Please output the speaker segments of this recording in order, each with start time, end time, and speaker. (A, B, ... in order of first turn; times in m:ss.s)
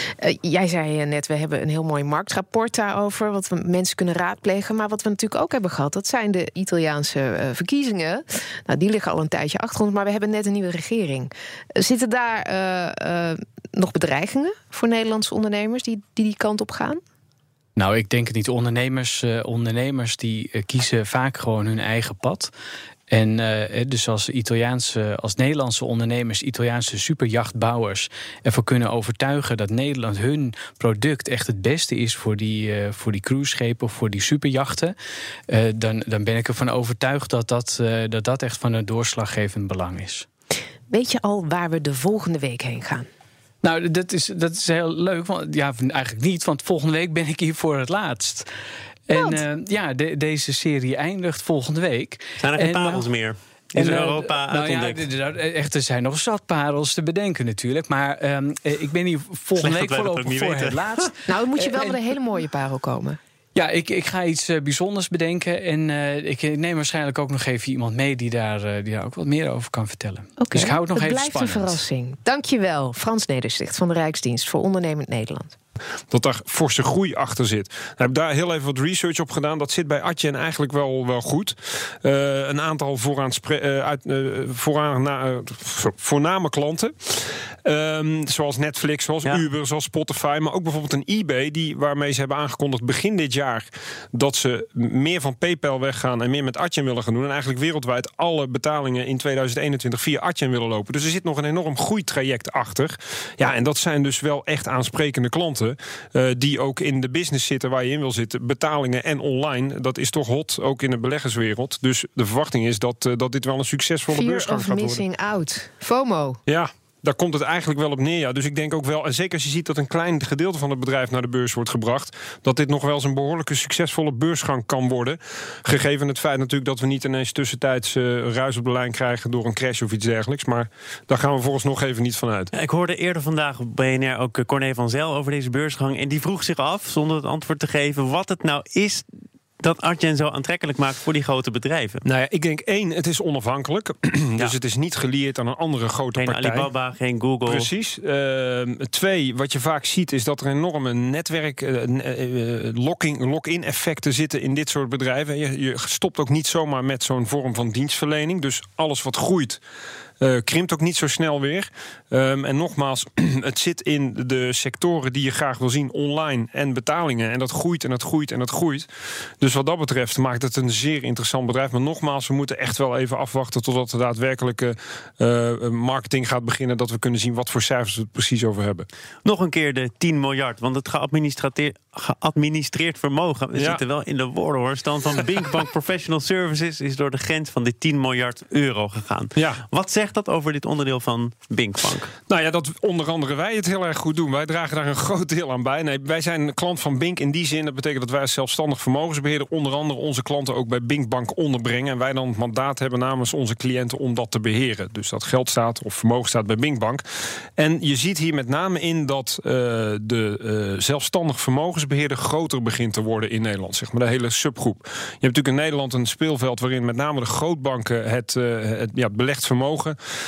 0:00.2-0:17.0 A
0:17.8-0:22.5 B
0:23.1-0:34.9 B
0:35.5-0:40.2 B
0:40.9-0:43.1 A
0:43.6-0:48.5 B
0:49.1-0:53.1 B
0:49.1-0:49.4 A
0:52.4-0:55.1 C
0:53.7-1:02.0 B
0:59.6-1:01.1 C
1:01.3-1:03.2 A
1:03.5-1:11.8 B
1:10.4-1:15.5 A
1:16.1-1:55.0 D
1:54.1-1:56.4 A
1:56.4-2:12.5 D
2:12.5-2:19.1 C
2:19.6-2:22.0 C
2:22.0-2:26.7 D
2:26.2-2:27.7 C
2:27.4-2:39.6 D
2:40.2-2:48.9 D
2:49.4-2:58.9 D
2:59.2-3:12.1 C
3:03.6-3:03.8 D
3:09.4-3:09.6 D
3:12.3-3:27.0 D
3:27.6-3:40.0 D